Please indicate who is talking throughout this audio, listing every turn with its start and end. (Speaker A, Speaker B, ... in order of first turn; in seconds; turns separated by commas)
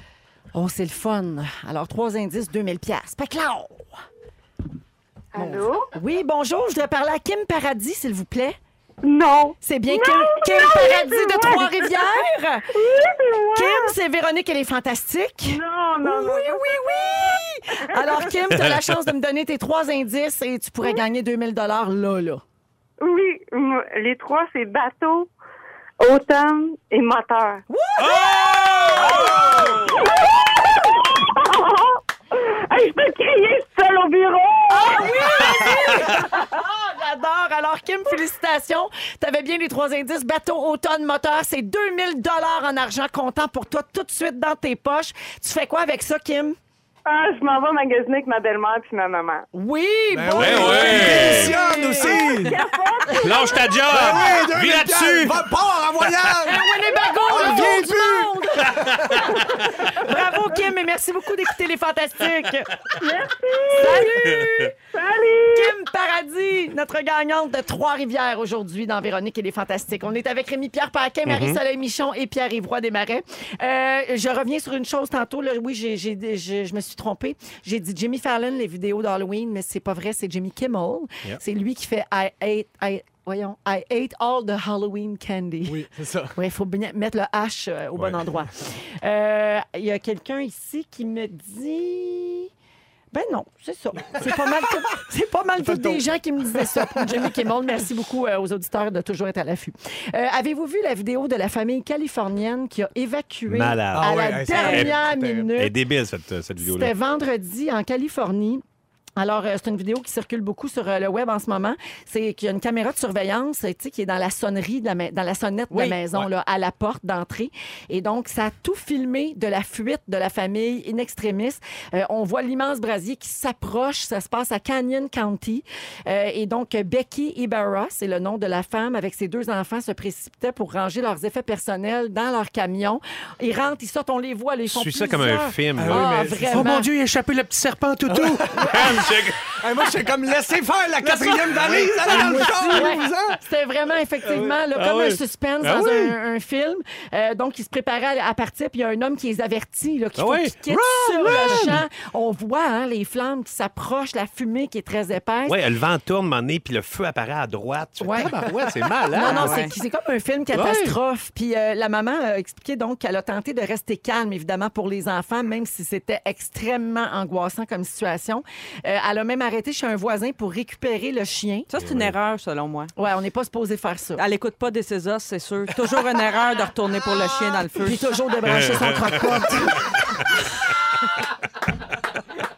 Speaker A: 0.5-3.9, Speaker B: 5.3-5.9, Speaker A: 5.4-8.6, Speaker B: 9.0-13.9, Speaker A: 9.6-12.7, Speaker A: 13.6-22.4, Speaker B: 15.4-17.4, Speaker B: 17.9-18.3, Speaker B: 23.0-25.3, Speaker B: 26.0-27.6, Speaker A: 27.7-29.9, Speaker C: 28.0-29.8, Speaker B: 28.9-36.5, Speaker A: 34.7-46.6, Speaker B: 47.1-49.5, Speaker A: 49.5-52.2, Speaker D: 50.1-52.6, Speaker C: 50.4-51.5, Speaker B: 51.8-53.7, Speaker C: 53.2-55.4, Speaker D: 53.9-56.7, Speaker A: 56.4-59.4, Speaker B: 56.8-57.7, Speaker D: 57.2-59.3, Speaker B: 59.5-59.9, Speaker A: 59.9-62.9, Speaker B: 63.0-64.4, Speaker A: 63.7-64.8, Speaker C: 64.3-64.7, Speaker B: 64.9-65.8, Speaker A: 65.5-85.8, Speaker C: 71.3-71.6, Speaker D: 85.6-86.4, Speaker A: 86.3-92.5, Speaker C: 88.0-88.2, Speaker A: 93.1-105.7, Speaker D: 95.6-97.3, Speaker C: 103.5-105.0, Speaker D: 103.9-105.5, Speaker E: 104.5-104.9, Speaker C: 105.6-106.9, Speaker A: 106.6-108.6, Speaker A: 109.2-136.9, Speaker E: 115.7-116.0, Speaker C: 134.7-139.6, Speaker D: 135.8-136.7, Speaker D: 138.1-143.4, Speaker A: 138.5-139.1, Speaker C: 141.5-142.9, Speaker A: 142.0-155.6, Speaker C: 144.3-146.1, Speaker C: 150.2-150.6, Speaker D: 150.7-151.8, Speaker C: 151.2-151.8, Speaker C: 155.5-159.6, Speaker A: 158.0-158.5, Speaker A: 159.1-171.7, Speaker E: 159.2-159.7, Speaker C: 160.5-161.0, Speaker E: 171.7-172.9, Speaker C: 171.8-172.1, Speaker A: 173.0-174.2, Speaker E: 174.2-178.0, Speaker A: 177.8-180.1, Speaker C: 178.4-179.5